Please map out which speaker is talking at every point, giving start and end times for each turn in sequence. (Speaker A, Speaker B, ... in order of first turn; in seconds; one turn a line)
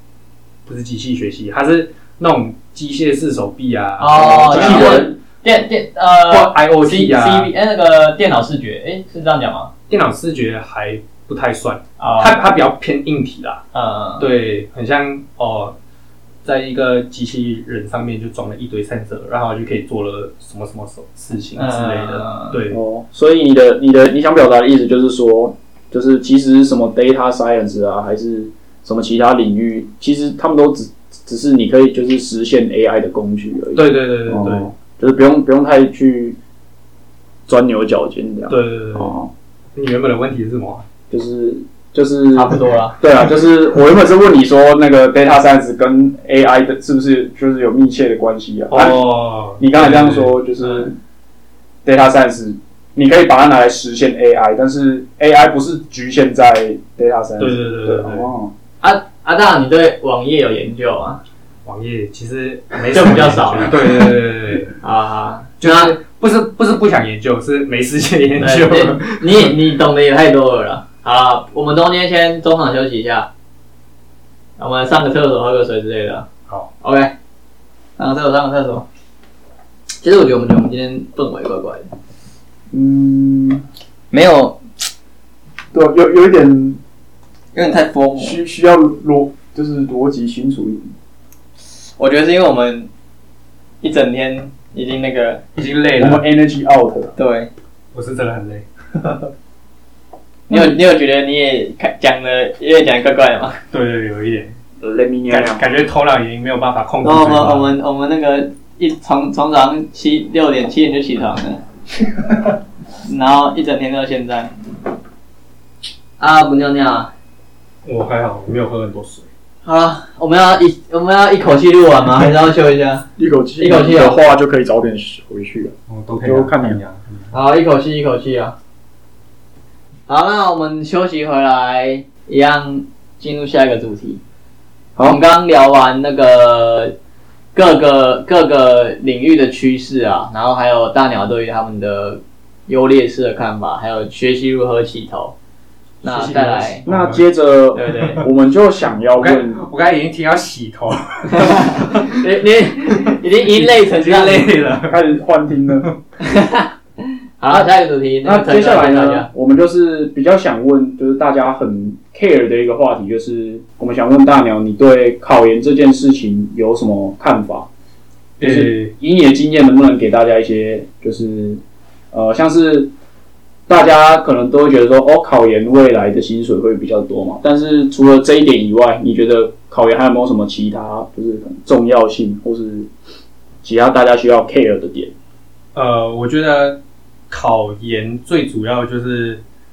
Speaker A: 0.7-5.1
Speaker B: 4.0-9.7
Speaker C: 4.1-5.2
Speaker A: 6.3-7.5
Speaker A: 9.9-13.6
Speaker B: 12.0-12.4
Speaker B: 13.7-14.3
Speaker A: 14.2-15.8
Speaker A: 16.4-22.8
Speaker B: 21.6-22.6
Speaker C: 22.7-36.4
Speaker A: 33.8-34.7
Speaker C: 37.5-39.3
Speaker A: 38.5-39.2
Speaker A: 39.8-40.9
Speaker C: 41.1-49.0
Speaker B: 42.3-43.0
Speaker A: 48.7-50.4
Speaker C: 49.6-51.0
Speaker B: 50.6-50.9
Speaker C: 51.9-58.5
Speaker A: 57.4-58.3
Speaker B: 58.8-61.2
Speaker A: 61.6-64.7
Speaker B: 62.9-63.8
Speaker B: 64.8-66.0
Speaker A: 65.6-69.5
Speaker B: 68.4-73.3
Speaker B: 74.6-76.3
Speaker B: 76.8-77.1
Speaker B: 78.0-78.9
Speaker B: 80.0-81.9
Speaker C: 82.7-83.7
Speaker B: 84.1-84.6
Speaker C: 85.7-86.8
Speaker B: 87.5-88.4
Speaker C: 88.2-90.9
Speaker B: 92.0-92.9
Speaker B: 93.8-95.4
Speaker A: 95.5-96.2
Speaker C: 96.0-97.1
Speaker B: 97.2-97.5
Speaker A: 97.9-98.7
Speaker B: 100.5-103.6
Speaker C: 100.5-100.7
Speaker A: 103.7-104.5
Speaker C: 104.8-105.6
Speaker A: 105.3-107.8
Speaker B: 107.0-111.6
Speaker B: 113.1-114.5
Speaker B: 116.2-117.1
Speaker A: 117.9-119.3
Speaker B: 119.6-123.0
Speaker C: 123.2-126.8
Speaker B: 123.6-124.2
Speaker A: 125.9-127.3
Speaker B: 127.3-128.6
Speaker B: 130.1-134.2
Speaker B: 135.0-136.9
Speaker B: 137.5-145.3
Speaker B: 146.0-146.8
Speaker A: 146.0-147.2
Speaker C: 146.9-149.6
Speaker B: 147.7-148.2
Speaker A: 149.2-152.3
Speaker B: 151.3-154.5
Speaker A: 152.9-155.0
Speaker C: 154.9-155.9
Speaker B: 156.2-159.3
Speaker C: 158.2-167.7
Speaker A: 168.4-168.9
Speaker C: 168.4-171.6
Speaker C: 172.1-172.9
Speaker C: 173.7-182.9
Speaker C: 183.6-185.1
Speaker A: 185.7-186.8
Speaker A: 187.3-189.4